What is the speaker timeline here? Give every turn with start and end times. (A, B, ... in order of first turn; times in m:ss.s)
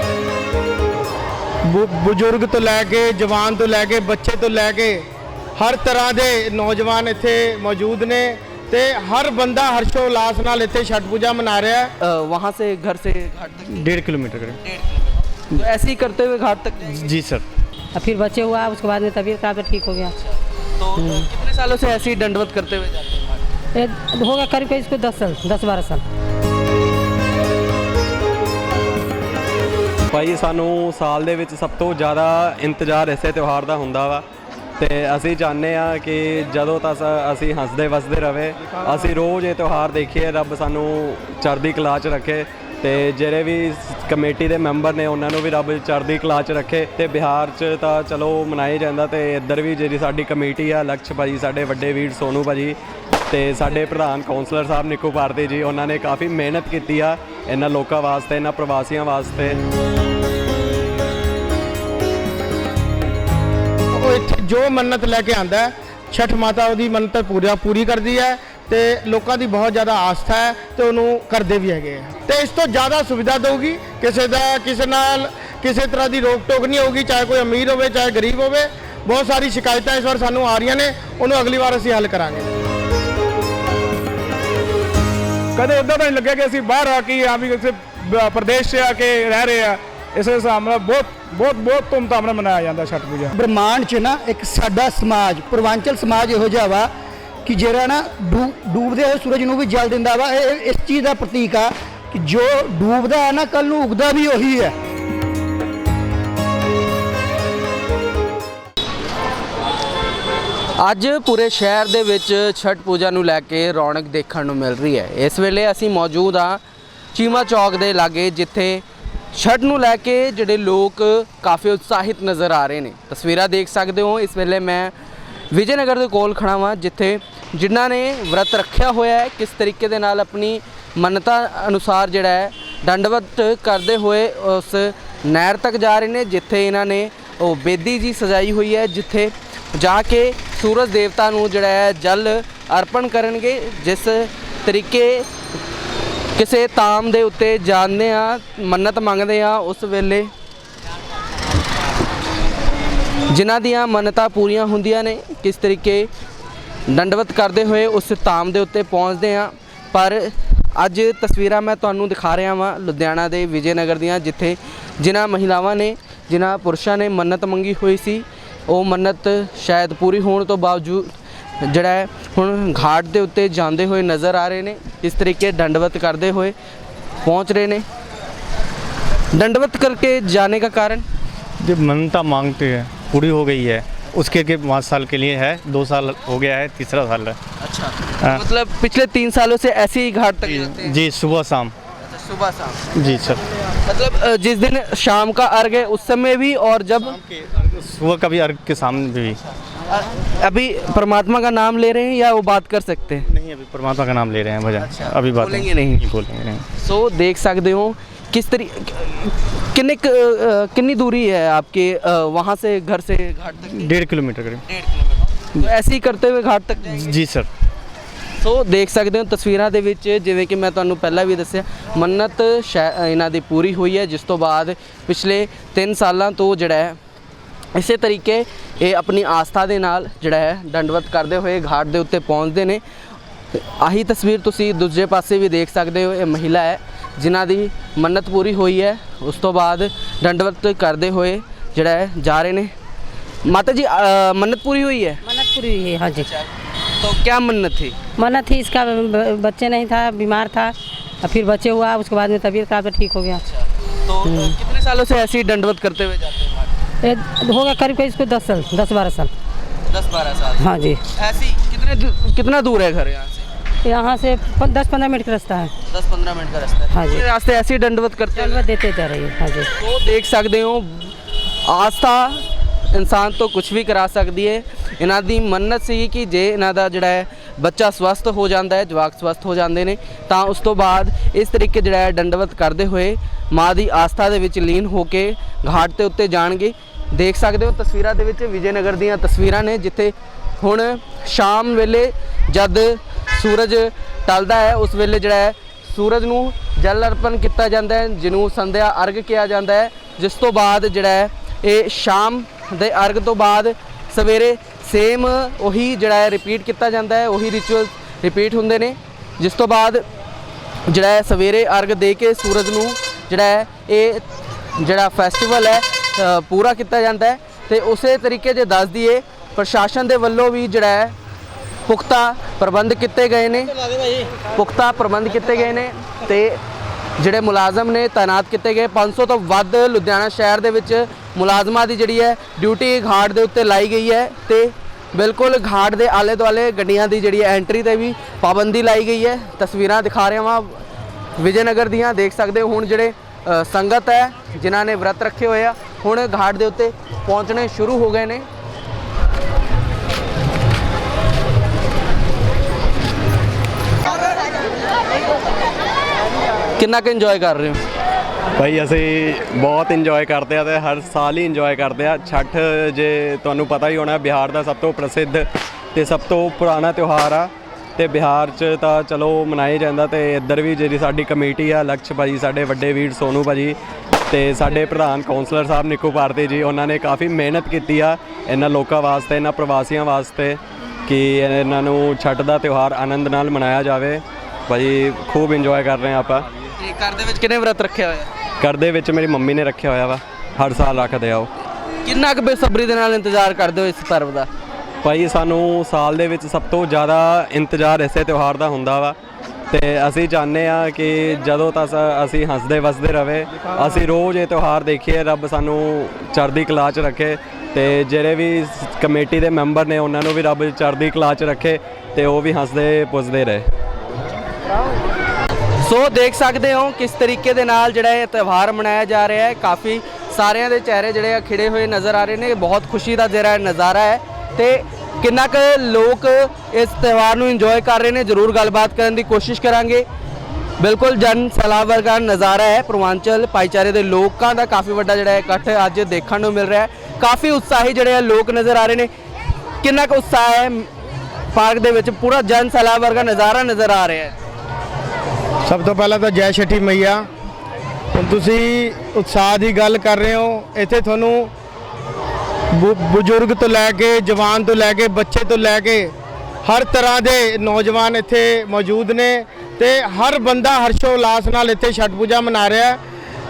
0:01.7-0:11.9 A
0:12.0-0:14.0 B
0:13.8-0:14.6 C
0:14.6-0:17.1 B
0:17.0-0:17.4 C
0:18.0-0:20.1 D
0:20.8-0:23.4 B
0:21.0-0:21.2 D
0:23.8-0:26.0 D
0:30.1-0:34.2 E
0:34.8-0:52.8 E
0:53.3-0:59.6 E
1:03.9-1:22.5 A
1:25.6-1:33.3 F
1:33.3-1:36.9 G
1:37.4-1:44.7 G
1:50.8-1:56.6 B
1:57.1-2:04.9 B
2:05.5-2:25.3 B
2:26.4-2:30.3 B
2:33.3-2:36.1 B
2:36.9-2:56.6 B
2:57.2-2:57.8 B
2:59.3-3:01.0 B
3:01.6-3:07.4 C
3:07.6-3:11.0 B
3:10.5-3:11.7 C
3:12.0-3:12.8 B
3:13.0-3:13.4 C
3:13.8-3:17.2 B
3:17.2-3:19.4 C
3:19.9-3:23.3 B
3:23.3-3:26.6 C
3:24.8-3:26.1 B
3:26.8-3:34.0 B
3:33.8-3:34.6 C
3:34.7-3:37.1 B
3:37.0-3:37.5 C
3:38.4-3:47.0 B
3:47.8-3:52.8 B
3:53.6-4:02.7 B
4:03.4-4:05.2 B
4:05.2-4:06.3 D
4:06.2-4:08.0 B
4:08.2-4:13.4 D
4:13.5-4:16.8 B
4:14.2-4:14.6 D
4:17.0-4:19.3 D
4:19.9-4:23.5 B
4:20.6-4:21.0 D
4:23.8-4:25.7 D
4:25.9-4:28.6 B
4:26.9-4:27.2 D
4:28.4-4:29.7 D
4:29.8-4:31.1 B
4:31.6-5:10.0 B
5:10.9-5:14.2 B
5:14.8-5:21.1 B
5:21.9-5:23.8 B
5:24.5-5:26.6 B
5:27.2-5:40.8 B
5:41.4-5:48.5 B
5:56.8-5:57.8 B
5:58.6-6:13.8 E
6:14.3-6:26.5 E
6:26.8-6:28.3 B
6:28.6-6:31.5 E
6:32.0-6:34.5 B
6:35.0-6:39.2 E
6:39.7-6:53.6 E
6:55.8-7:10.0 B
7:10.8-7:19.1 B
7:19.8-7:20.9 B
7:21.5-7:24.4 B
7:25.7-7:27.3 A
7:28.1-7:31.5 A
7:32.7-7:43.0 A